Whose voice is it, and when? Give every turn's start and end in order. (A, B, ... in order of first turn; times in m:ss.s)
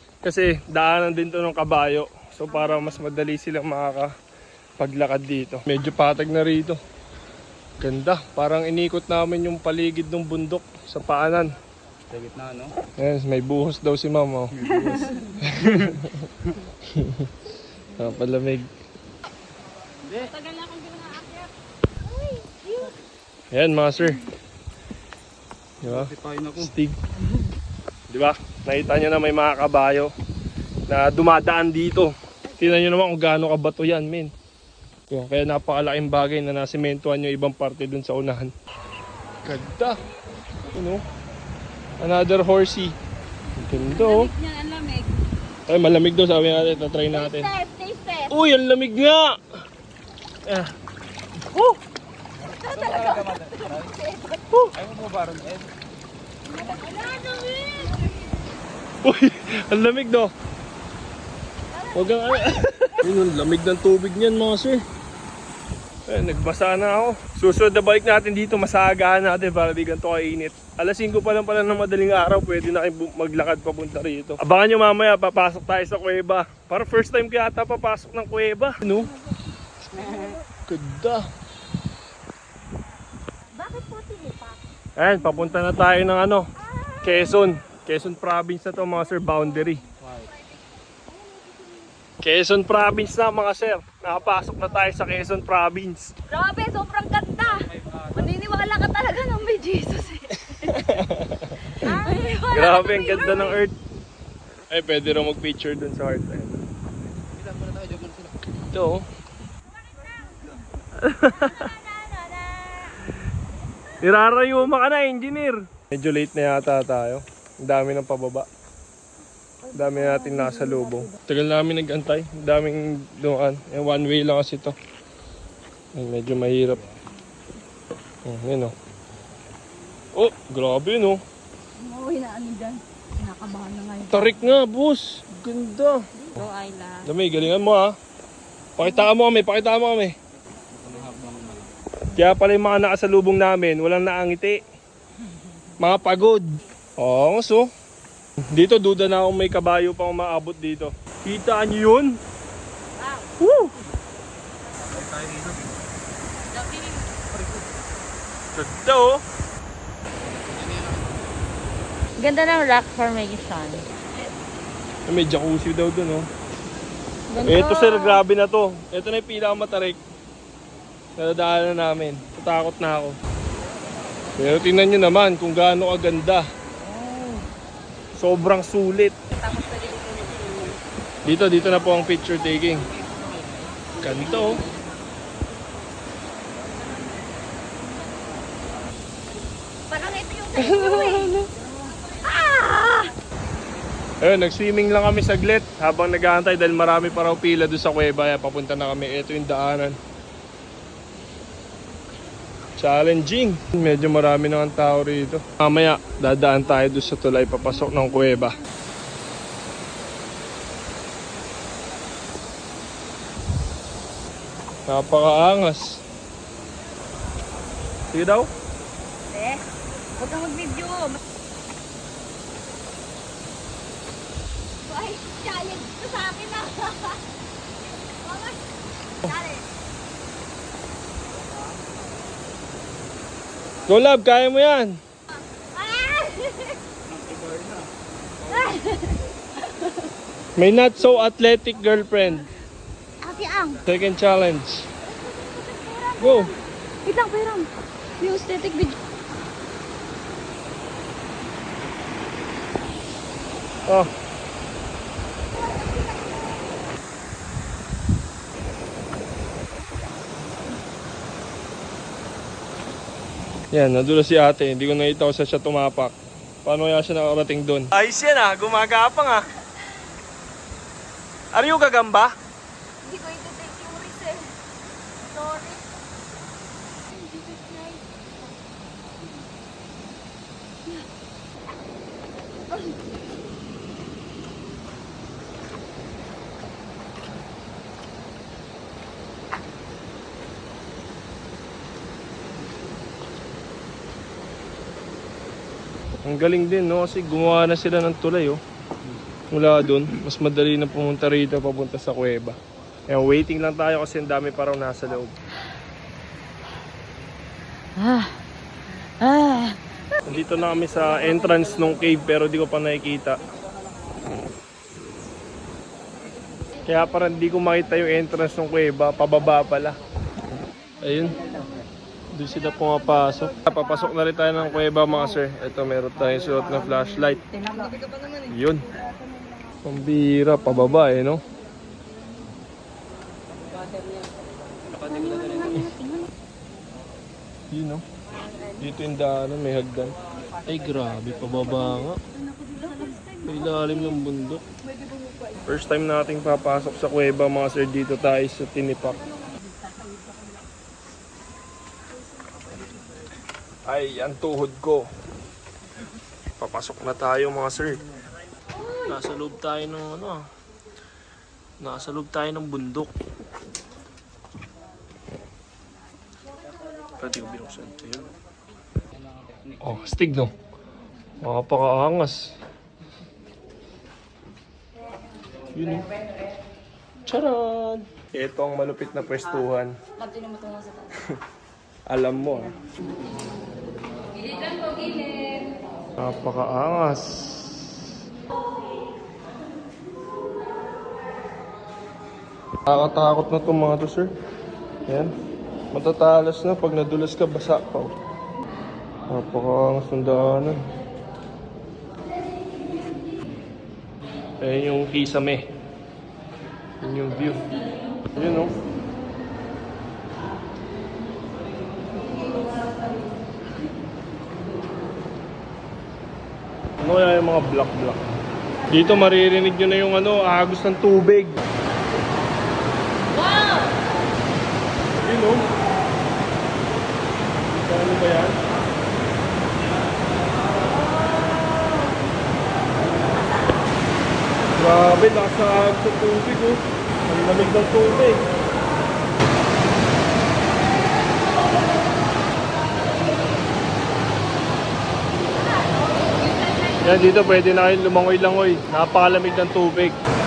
0:00.2-0:04.1 A
0:04.8-0:06.8 A
0:07.8-0:11.5 A
0:12.1-0:12.8 B
0:13.0-0:16.3 A
0:14.8-0:15.2 C
0:16.9-0:17.3 A
0:18.0-0:18.7 A
0:20.2-0:21.5 C
0:22.1-0:22.9 C
0:23.5-0:24.2 A
0:25.8-0:27.0 A
0:25.9-0:26.7 B
0:28.1-0:30.1 A
0:30.9-0:34.3 A
0:35.1-0:38.5 A
0:39.4-0:40.0 A
0:40.7-0:41.0 A
0:42.0-0:43.0 A
0:43.6-0:44.3 A
0:43.7-0:45.2 C
0:45.7-0:47.5 A
0:47.1-0:48.3 C
0:48.3-0:49.4 A
0:50.5-0:50.7 A
0:51.4-0:51.8 A
0:52.4-0:54.4 C
0:52.6-0:53.9 B
0:54.8-0:55.7 B
0:56.5-0:58.1 C
0:59.0-1:00.3 A
1:01.7-1:03.0 C
1:01.9-1:04.8 A
1:06.1-1:19.1 A
1:19.9-1:20.4 C
1:20.7-1:21.3 A
1:23.6-1:24.6 C
1:25.0-1:26.5 A
1:27.0-1:29.8 A
1:32.2-1:36.1 A
1:36.3-1:40.7 C
1:40.5-1:42.0 A
1:41.7-1:43.6 C
1:42.5-1:43.7 A
1:44.7-1:46.6 A
1:47.4-1:48.3 B
1:48.7-1:49.0 A
1:51.0-1:51.7 A
1:51.4-1:53.0 C
1:54.0-1:58.5 A
1:59.7-2:04.8 A
2:00.3-2:00.7 C
2:06.0-2:06.9 A
2:08.2-2:08.7 A
2:10.2-2:11.2 A
2:11.8-2:14.4 C
2:14.1-2:16.4 A
2:16.2-2:17.1 C
2:17.0-2:17.9 A
2:18.8-2:20.2 A
2:20.8-2:21.7 B
2:22.2-2:24.6 A
2:25.8-2:26.4 A
2:27.0-2:27.7 A
2:28.5-2:32.1 A
2:33.4-2:33.7 A
2:35.0-2:35.6 B
2:38.5-2:39.2 A
2:40.6-2:41.0 B
2:42.2-2:43.9 C
2:45.1-2:46.3 A
2:47.3-2:48.2 C
2:47.4-2:50.0 A
2:51.2-2:53.2 A
2:54.4-2:56.5 A
2:58.2-2:59.2 A
2:59.4-3:00.6 C
3:01.2-3:02.8 A
3:04.0-3:04.6 A
3:09.9-3:11.4 C
3:10.6-3:11.5 A
3:12.0-3:13.1 C
3:14.2-3:20.0 A
3:22.8-3:28.5 A
3:34.9-3:36.0 A
3:38.1-3:38.5 A
3:39.3-3:39.6 C
3:40.2-3:41.2 C
3:44.9-3:47.2 C
3:48.2-3:48.6 C
3:49.2-3:49.6 C
3:53.9-3:55.0 A
3:55.7-3:56.8 C
3:57.2-3:57.8 B
3:58.5-3:59.9 C
4:00.6-4:02.5 A
4:03.2-4:03.8 C
4:03.9-4:04.9 A
4:05.1-4:07.7 C
4:06.2-4:06.5 A
4:08.2-4:09.0 C
4:15.7-4:16.4 C
4:23.7-4:26.1 A
4:26.6-4:29.4 A
4:31.5-4:32.3 A
4:33.0-4:34.5 C
4:35.3-4:35.9 C
4:37.1-4:38.0 C
4:56.2-4:58.6 A
4:59.5-5:02.6 A
5:03.1-5:05.4 A
5:08.0-5:08.4 C
5:09.2-5:09.8 C
5:10.2-5:13.4 A
5:16.9-5:20.0 A
5:21.0-5:21.4 A
5:22.4-5:27.4 A
5:27.6-5:28.0 C
5:28.5-5:28.9 A
5:29.8-5:31.4 A
5:35.0-5:36.2 C
5:37.7-5:38.0 A
5:38.8-5:42.2 A
5:42.7-5:43.3 C
5:43.4-5:44.6 A
5:45.6-5:49.2 A
5:53.9-5:55.0 A
5:56.6-5:58.0 A
5:59.1-6:00.4 A
6:01.8-6:03.1 A
6:07.2-6:08.3 A
6:09.8-6:10.5 A
6:11.4-6:12.5 A
6:15.7-6:16.1 A
6:17.3-6:19.9 A
6:20.2-6:21.1 C
6:22.1-6:22.7 A
6:24.5-6:25.6 C
6:26.2-6:28.1 A
6:32.9-6:34.3 A
6:35.9-6:38.1 A
6:39.3-6:40.8 A
6:44.6-6:45.6 A
6:47.0-6:47.8 A
6:48.4-6:48.8 A
6:57.0-6:58.2 A
6:58.9-7:01.6 A
7:03.5-7:03.8 C
7:05.2-7:05.6 A
7:07.8-7:08.6 A
7:14.8-7:18.4 A
7:26.4-7:27.0 C
7:27.0-7:30.2 A